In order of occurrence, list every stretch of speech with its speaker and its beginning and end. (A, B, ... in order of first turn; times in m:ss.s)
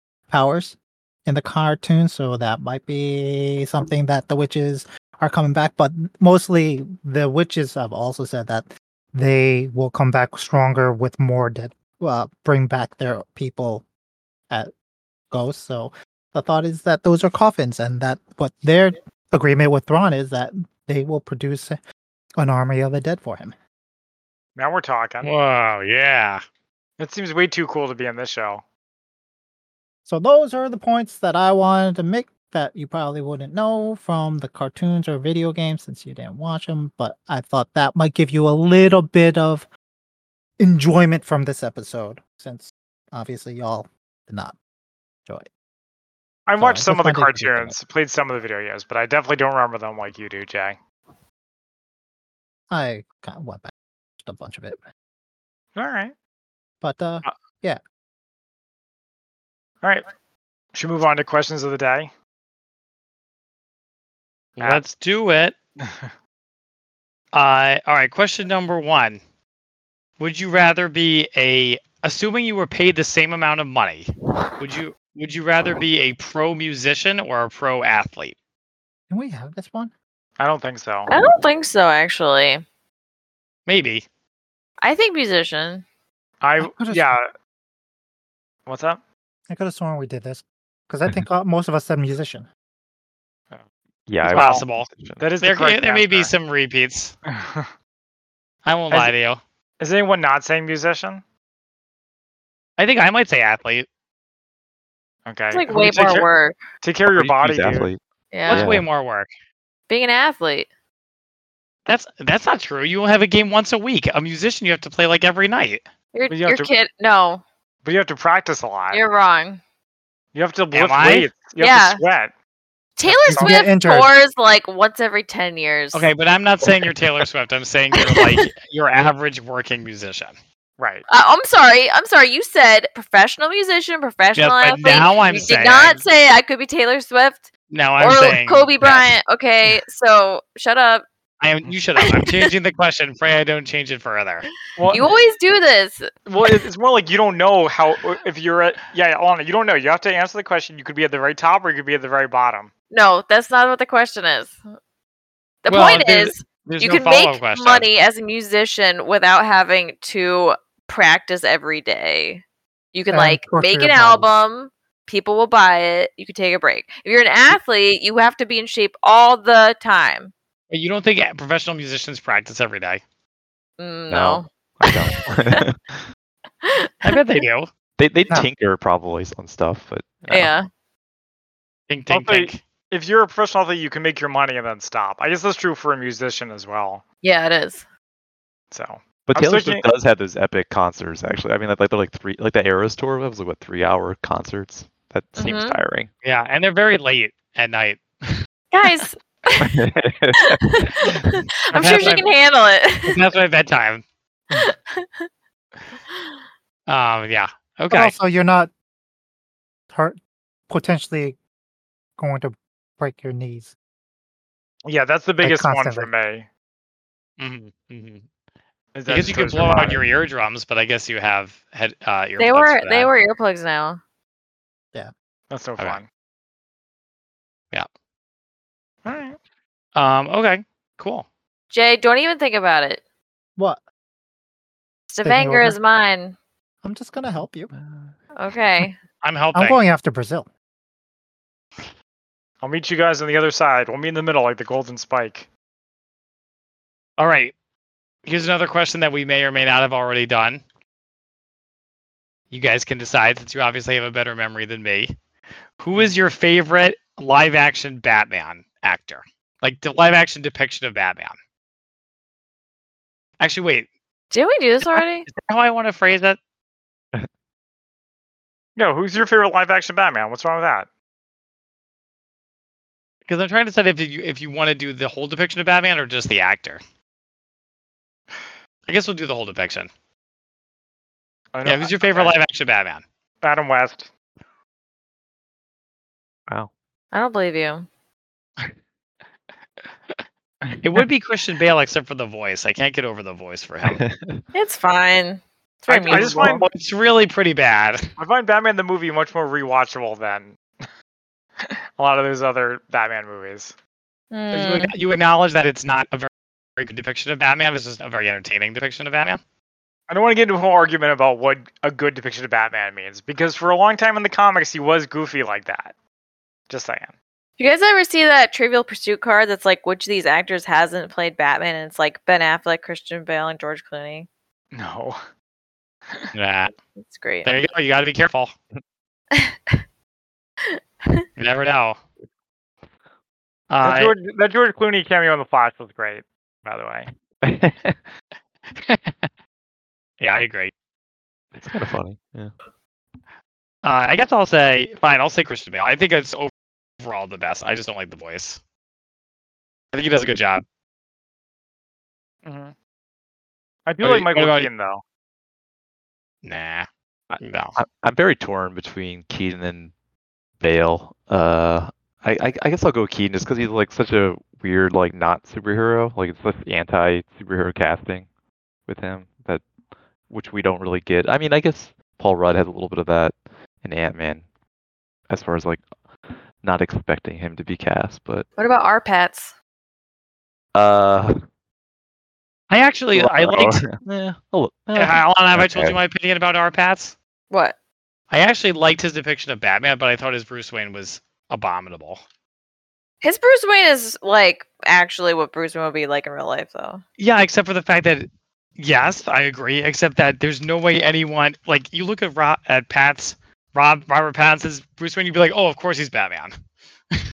0:00.3-0:13.8 A
0:15.3-0:21.8 A
0:22.4-0:23.5 A
0:24.6-0:25.3 B
0:25.2-0:26.4 C
0:27.0-0:28.6 B
0:30.0-0:39.7 A
0:40.6-0:44.6 A
0:46.5-0:50.8 B
0:46.6-0:47.7 A
0:52.7-0:54.8 A
0:55.7-0:56.1 B
0:56.8-0:57.8 A
1:00.7-1:02.1 B
1:04.6-1:05.6 C
1:07.3-1:09.2 C
1:10.2-1:18.3 C
1:19.1-1:19.9 A
1:20.4-1:21.1 B
1:21.1-1:22.6 D
1:23.7-1:24.0 C
1:24.8-1:25.8 D
1:26.4-1:27.3 B
1:26.6-1:27.1 A
1:28.6-1:29.0 B
1:29.5-1:32.5 A
1:34.1-1:35.2 E
1:34.2-1:34.9 C
1:34.3-1:34.6 B
1:35.2-1:36.3 B
1:35.4-1:37.1 C
1:37.3-1:37.7 B
1:38.6-1:39.4 C
1:39.8-1:41.2 B
1:42.8-1:43.9 C
1:45.2-1:46.3 B
1:45.5-1:46.6 D
1:46.8-1:47.9 B
1:47.1-1:48.8 E
1:48.3-1:48.7 D
1:48.5-1:49.3 C
1:49.9-1:50.7 D
1:51.8-1:55.8 C
1:56.1-1:57.4 D
1:56.3-1:56.7 B
1:57.8-1:59.0 B
1:58.9-1:59.6 D
2:00.3-2:02.3 B
2:00.7-2:01.3 C
2:01.6-2:02.0 D
2:03.0-2:06.1 D
2:03.3-2:04.1 A
2:05.9-2:10.3 C
2:07.9-2:08.5 D
2:10.8-2:11.0 B
2:11.1-2:21.0 D
2:14.4-2:16.0 C
2:17.7-2:19.1 C
2:21.4-2:24.5 C
2:22.0-2:22.5 D
2:24.8-2:25.1 B
2:24.9-2:26.1 D
2:26.2-2:32.7 B
2:32.9-2:34.6 D
2:35.6-2:50.3 D
2:35.7-2:37.9 C
2:43.1-2:44.3 A
2:50.7-2:53.0 C
2:53.8-2:55.6 D
2:54.1-2:56.0 E
2:56.6-2:57.2 D
2:57.0-2:57.7 C
2:58.0-3:00.5 E
3:00.3-3:00.7 D
3:01.9-3:02.6 C
3:02.1-3:07.0 B
3:07.2-3:07.8 D
3:08.7-3:09.9 B
3:09.3-3:16.1 E
3:15.4-3:15.8 D
3:16.2-3:18.4 C
3:18.7-3:19.8 D
3:19.6-3:20.6 E
3:20.4-3:23.2 D
3:21.7-3:22.3 C
3:23.0-3:24.0 C
3:24.5-3:25.3 D
3:26.9-3:28.1 C
3:27.9-3:28.7 A
3:29.9-3:30.2 A
3:30.7-3:31.4 A
3:32.2-3:33.7 A
3:34.8-3:36.5 B
3:35.4-3:36.1 A
3:37.4-3:38.2 C
3:38.9-3:40.0 B
3:39.1-3:43.1 C
3:42.4-3:44.0 D
3:45.5-3:46.1 B
3:49.0-3:49.4 B
3:49.9-3:51.3 C
3:51.7-3:53.0 D
3:55.1-3:56.4 D
3:55.2-3:55.8 A
3:56.8-3:57.7 A
3:58.3-3:59.0 D
3:59.2-3:59.8 C
3:59.5-4:00.5 A
4:02.6-4:05.5 B
4:07.2-4:07.5 C
4:08.2-4:10.6 C
4:12.5-4:15.1 C
4:15.8-4:21.3 C
4:23.4-4:23.9 C
4:24.3-4:25.3 D
4:24.8-4:26.4 C
4:28.8-4:30.9 B
4:33.3-4:36.8 C
4:38.9-4:39.9 C
4:41.5-4:42.3 B
4:41.6-4:43.0 C
4:43.4-4:44.1 B
4:47.1-4:47.9 D
4:50.8-4:54.0 C
4:53.8-4:54.4 E
4:54.5-4:56.6 D
4:55.9-4:58.1 C
4:56.1-4:56.7 B
4:58.2-5:00.8 B
5:01.6-5:03.7 B
5:04.3-5:04.9 D
5:04.5-5:09.4 C
5:10.1-5:15.9 B
5:16.7-5:17.1 B
5:17.6-5:24.3 D
5:24.7-5:25.2 B
5:26.3-5:26.7 C
5:27.0-5:27.5 D
5:27.4-5:28.5 C
5:29.3-5:29.8 D
5:30.7-5:31.2 D
5:31.4-5:32.0 C
5:33.7-5:34.1 C
5:33.8-5:37.1 B
5:37.4-5:38.0 E
5:38.7-5:39.3 C
5:40.2-5:40.7 C
5:41.6-5:42.5 E
5:43.8-5:48.6 C
5:49.9-5:50.6 C
5:52.4-5:52.7 B
5:53.9-5:55.0 B
5:54.0-5:54.7 C
5:56.4-5:56.9 C
5:57.3-5:59.9 E
5:57.4-5:57.8 C
6:00.6-6:08.3 E
6:08.9-6:09.6 E
6:10.3-6:14.4 E
6:15.3-6:15.8 E
6:16.6-6:18.5 E
6:18.6-6:19.5 D
6:20.7-6:21.4 E
6:22.7-6:23.9 C
6:23.1-6:26.0 E
6:24.9-6:27.1 C
6:27.5-6:27.8 D
6:28.3-6:32.2 C
6:33.2-6:37.0 D
6:37.2-6:38.3 C
6:38.8-6:46.5 C